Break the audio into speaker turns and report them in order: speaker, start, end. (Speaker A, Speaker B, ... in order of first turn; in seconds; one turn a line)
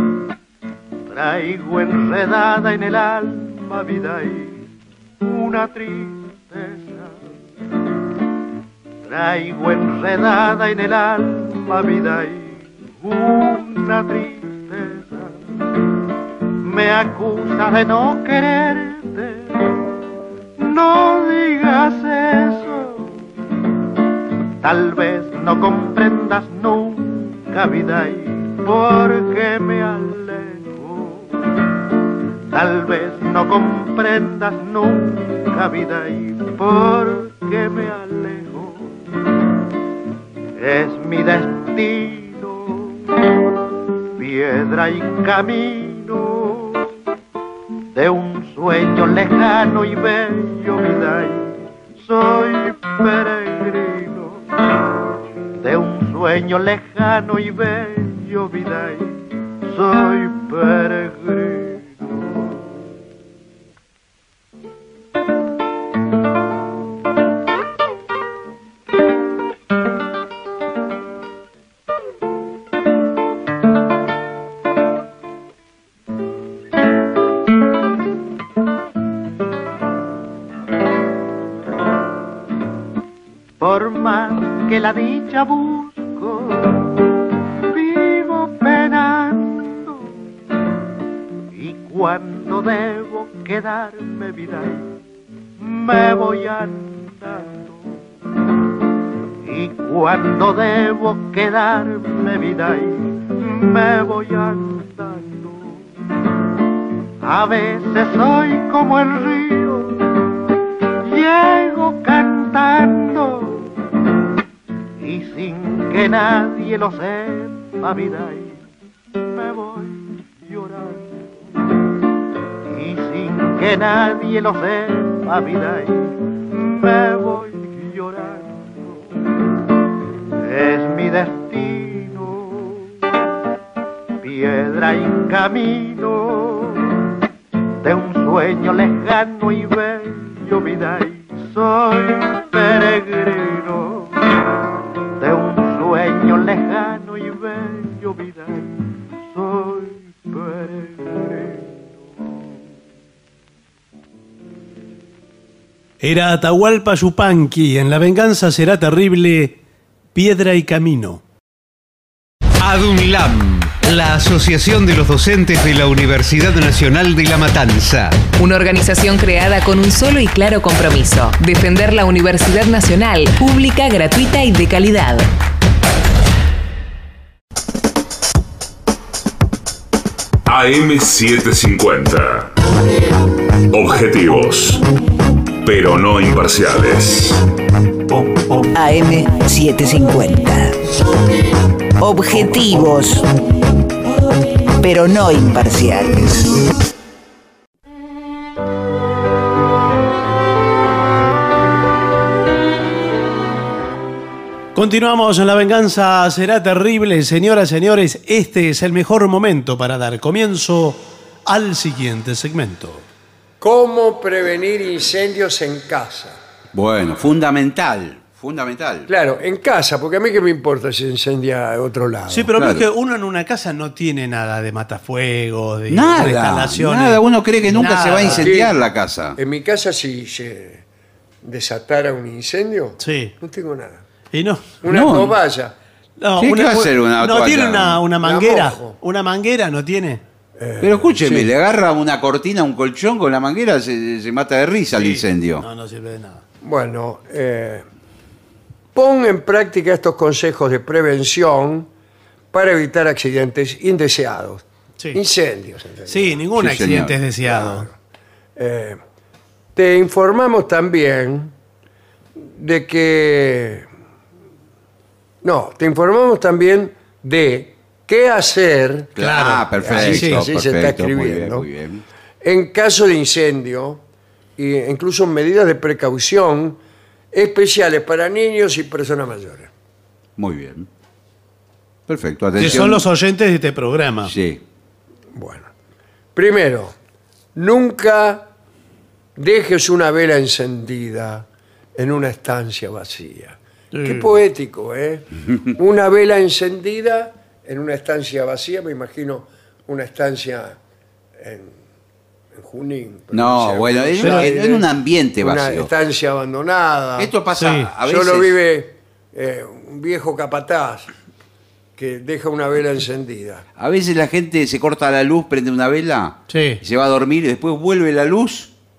Speaker A: 1.1-4.7
Speaker A: 5.2-7.3
Speaker A: 9.1-15.6
Speaker A: 16.6-19.5
Speaker A: 20.6-23.2
Speaker A: 24.6-31.3
Speaker A: 32.5-39.0
Speaker A: 40.6-43.1
Speaker A: 44.2-46.9
Speaker A: 47.9-54.5
Speaker A: 55.6-62.5
Speaker A: 83.6-87.0
Speaker A: 87.7-90.2
Speaker A: 91.5-94.9
Speaker A: 95.6-98.0
Speaker A: 99.5-105.9
Speaker A: 107.2-110.0
Speaker A: 111.0-113.7
Speaker A: 115.0-118.6
Speaker A: 119.2-121.2
Speaker A: 122.7-129.0
Speaker A: 130.4-132.9
Speaker A: 134.2-136.9
Speaker A: 137.8-144.3
Speaker A: 145.2-148.7
Speaker A: 149.3-151.8
Speaker B: 156.0-159.6
Speaker B: 160.2-161.2
Speaker C: 162.6-168.2
Speaker D: 168.4-175.3
Speaker E: 180.5-182.5
Speaker E: 183.7-184.8
Speaker E: 185.6-187.4
Speaker F: 188.6-190.8
Speaker F: 192.0-193.3
Speaker F: 194.8-196.7
Speaker B: 204.8-213.1
Speaker G: 213.6-216.4
Speaker H: 216.7-219.1
Speaker G: 219.1-222.5
Speaker B: 222.3-228.5
Speaker H: 222.6-222.9
Speaker H: 225.9-229.4
Speaker G: 228.2-228.8
Speaker G: 229.3-230.8
Speaker G: 231.4-234.1
Speaker B: 233.0-233.3
Speaker B: 234.3-234.7
Speaker G: 234.8-235.8
Speaker H: 234.9-235.4
Speaker B: 236.2-240.2
Speaker H: 236.4-238.0
Speaker G: 238.2-239.0
Speaker G: 240.6-241.5
Speaker H: 240.8-245.6
Speaker B: 245.0-246.4
Speaker G: 246.6-247.9
Speaker G: 248.9-251.9
Speaker G: 252.5-256.4
Speaker B: 256.1-257.9
Speaker H: 256.6-257.2
Speaker G: 257.4-258.0
Speaker G: 258.6-259.0
Speaker G: 259.8-261.5
Speaker G: 262.4-263.9
Speaker G: 265.4-269.2
Speaker H: 269.2-272.0
Speaker B: 269.2-270.4
Speaker G: 269.8-271.7
Speaker G: 272.4-274.0
Speaker G: 274.6-276.8
Speaker G: 277.3-279.7
Speaker H: 280.4-280.9
Speaker H: 282.1-283.1
Speaker B: 282.6-284.3
Speaker H: 284.3-284.6
Speaker G: 285.3-285.7
Speaker G: 286.4-287.0
Speaker G: 287.6-288.5
Speaker G: 289.4-300.8
Speaker B: 293.9-294.3
Speaker G: 301.4-301.8
Speaker G: 302.5-304.9
Speaker H: 303.3-305.9
Speaker B: 304.2-304.5
Speaker G: 305.4-307.3
Speaker H: 307.2-308.6
Speaker B: 307.6-307.9
Speaker G: 308.0-311.1
Speaker G: 312.0-313.6
Speaker H: 313.8-318.7
Speaker B: 316.5-316.8